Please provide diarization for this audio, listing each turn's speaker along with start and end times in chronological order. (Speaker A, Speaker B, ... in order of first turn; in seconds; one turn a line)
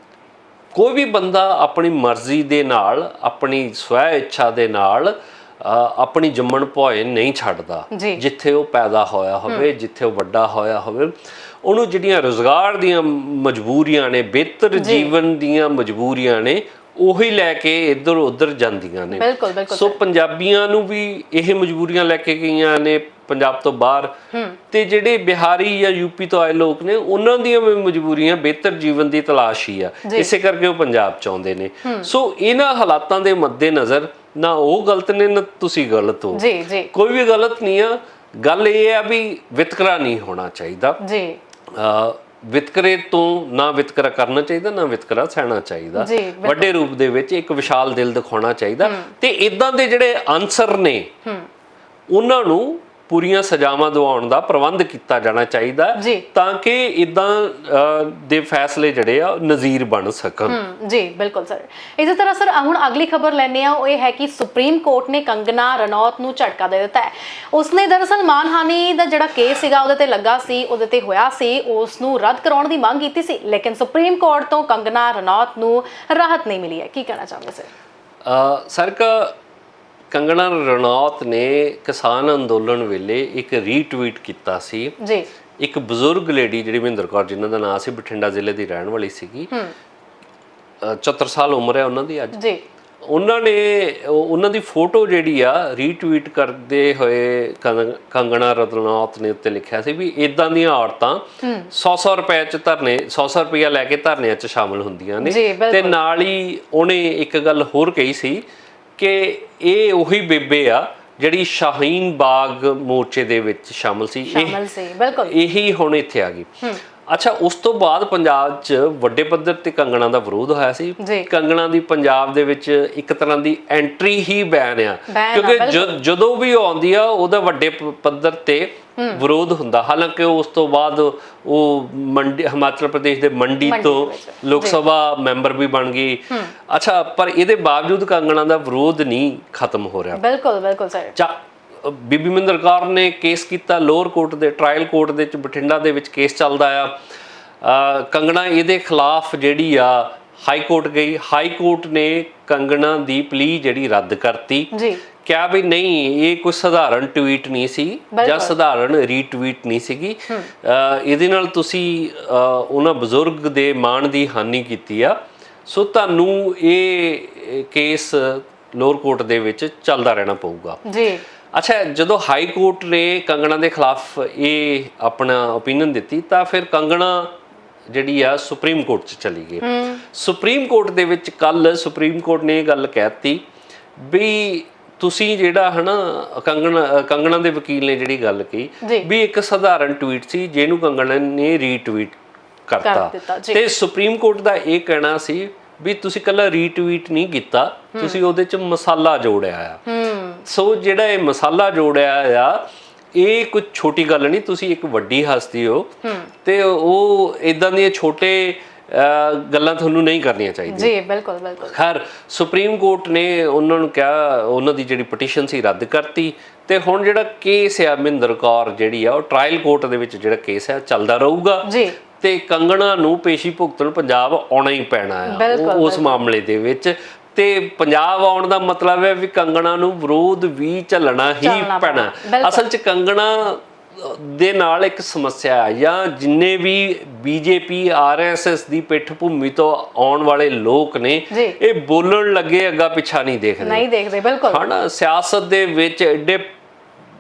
Speaker A: 0.7-24.1
Speaker B: 7.9-8.2
Speaker B: 14.8-15.1
Speaker B: 19.1-20.0
Speaker B: 24.3-24.6
Speaker A: 24.7-41.0
Speaker B: 31.9-32.1
Speaker B: 36.3-36.9
Speaker B: 41.0-41.4
Speaker A: 41.7-51.1
Speaker B: 46.0-46.7
Speaker B: 48.8-49.1
Speaker A: 52.1-60.6
Speaker B: 56.0-56.2
Speaker B: 60.5-77.7
Speaker A: 78.2-79.3
Speaker A: 80.1-85.0
Speaker B: 85.0-85.3
Speaker A: 85.6-89.5
Speaker A: 90.8-92.4
Speaker B: 92.3-92.6
Speaker A: 93.1-108.4
Speaker B: 101.4-101.7
Speaker B: 105.2-106.0
Speaker A: 109.0-114.6
Speaker B: 114.3-115.3
Speaker A: 115.2-116.5
Speaker A: 117.1-140.2
Speaker B: 121.0-121.3
Speaker B: 125.1-126.0
Speaker B: 129.0-129.2
Speaker B: 133.6-134.8
Speaker B: 140.1-141.1
Speaker A: 141.1-146.9
Speaker A: 147.6-154.7
Speaker B: 154.7-155.0
Speaker A: 155.2-165.1
Speaker B: 158.1-158.6
Speaker A: 165.7-170.8
Speaker B: 170.9-171.2
Speaker A: 171.5-177.4
Speaker A: 177.9-183.4
Speaker B: 179.6-180.0
Speaker A: 184.0-199.8
Speaker B: 188.8-189.1
Speaker B: 192.8-193.6
Speaker B: 197.9-198.2
Speaker B: 199.9-200.4
Speaker A: 200.4-202.6
Speaker A: 203.1-205.9
Speaker B: 206.0-206.3
Speaker A: 206.4-210.9
Speaker B: 210.7-211.8
Speaker A: 211.6-221.7
Speaker B: 221.6-222.0
Speaker A: 222.2-243.9
Speaker B: 225.3-226.2
Speaker B: 231.4-232.6
Speaker B: 241.3-241.6
Speaker B: 243.6-244.6
Speaker A: 244.5-246.5